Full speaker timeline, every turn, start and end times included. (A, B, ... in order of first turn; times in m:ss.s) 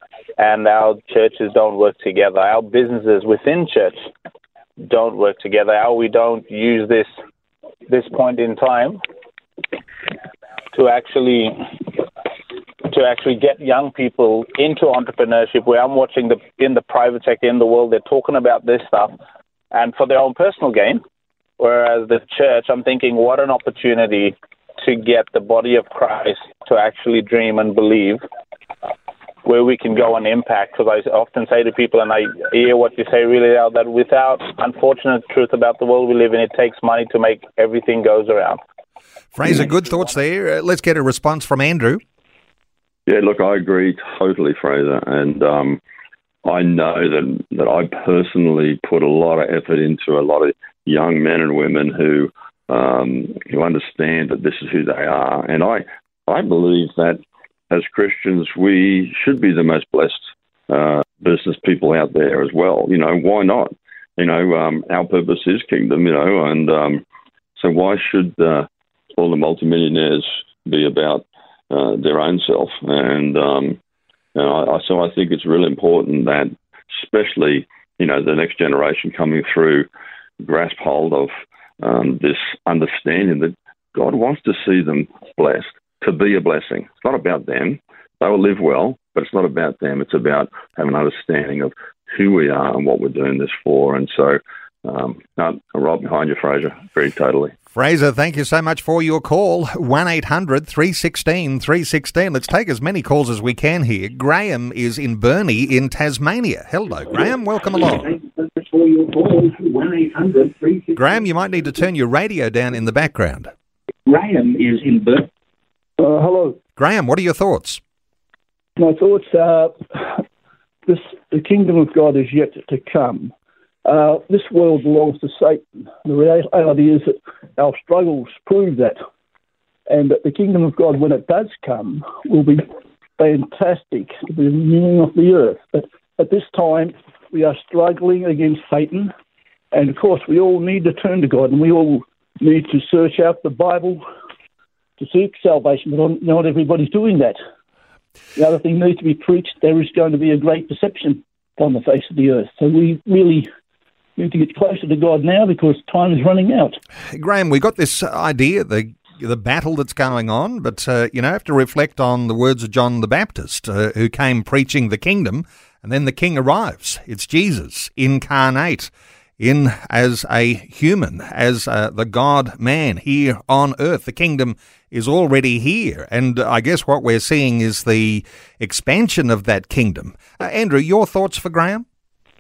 0:00.4-0:04.1 A
0:04.8-0:07.1 A
0:07.9-0:09.0 A
0:10.7-0:12.0 A
0:12.9-0:19.2 A
0:19.7-0:21.0 A
0:21.6-0:28.2 A
0:29.4-0:38.6 A
0:39.3-0:42.0 B
0:43.1-0:45.8 C
0:46.4-1:07.0 C
1:07.6-1:13.8 C
1:14.4-1:19.9 C
1:20.4-1:37.5 C
1:37.7-1:48.2 B
1:47.8-1:51.6 D
1:51.0-1:53.5 B
1:54.1-1:55.3 D
1:56.0-1:56.6 E
1:56.8-1:57.8 B
1:58.8-2:00.2 E
2:00.9-2:03.3 E
2:03.8-2:09.0 E
2:09.9-2:12.7 E
2:13.2-2:19.1 E
2:19.7-2:24.0 E
2:25.0-2:27.4 E
2:28.4-2:33.5 E
2:34.2-2:36.8 E
2:37.1-3:01.8 B